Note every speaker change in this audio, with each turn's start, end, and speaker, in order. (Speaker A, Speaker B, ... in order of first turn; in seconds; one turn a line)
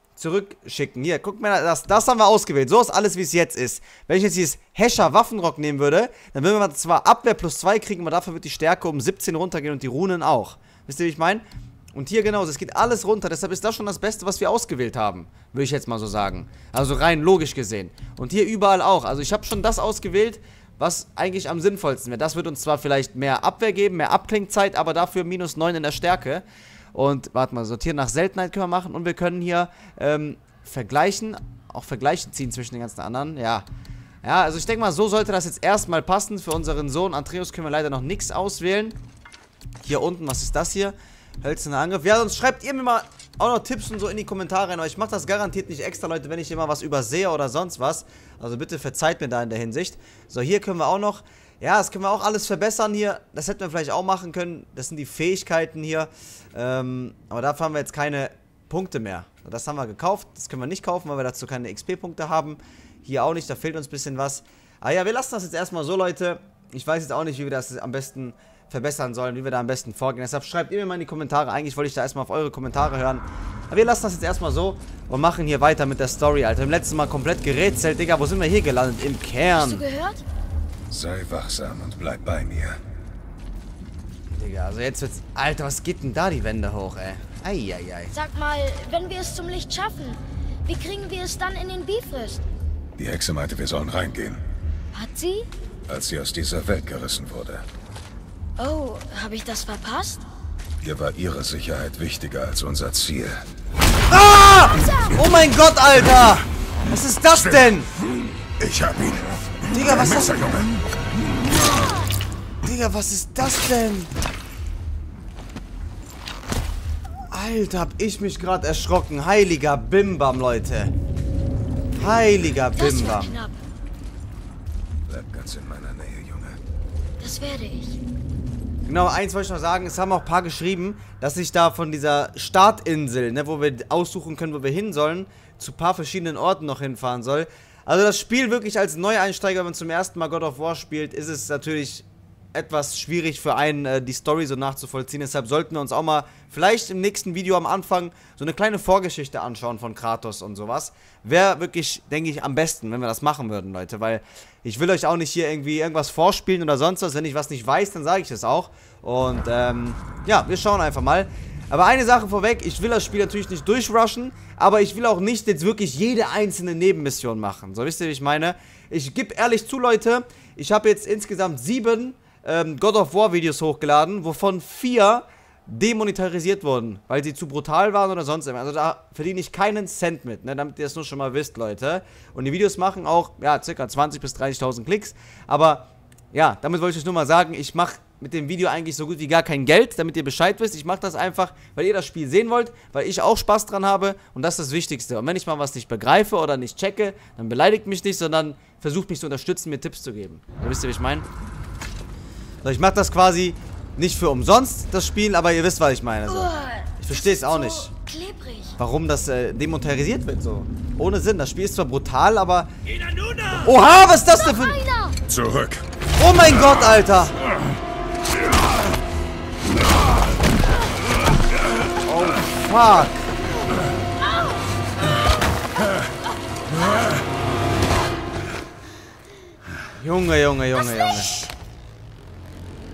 Speaker A: 0.2-33.7
Speaker A: 34.2-39.0
Speaker A: 39.8-79.8
Speaker B: 79.5-80.2
Speaker C: 80.9-82.8
Speaker A: 84.3-88.1
Speaker B: 88.1-92.4
Speaker C: 93.0-94.4
Speaker B: 94.9-95.5
Speaker C: 95.9-97.7
Speaker B: 98.6-100.2
Speaker C: 100.8-103.4
Speaker A: 104.1-107.9
Speaker C: 108.6-110.7
Speaker A: 109.7-110.7
Speaker A: 112.7-114.1
Speaker A: 117.3-120.9
Speaker A: 121.9-123.3
Speaker B: 122.8-123.6
Speaker C: 125.1-126.6
Speaker B: 127.2-128.0
Speaker A: 128.8-201.2
Speaker A: 202.6-207.9
Speaker B: 206.3-208.7
Speaker A: 208.8-212.7
Speaker A: 213.5-214.8
Speaker B: 214.3-215.2
Speaker C: 215.3-215.8
Speaker A: 216.2-217.3
Speaker A: 222.0-223.3
Speaker A: 229.9-231.3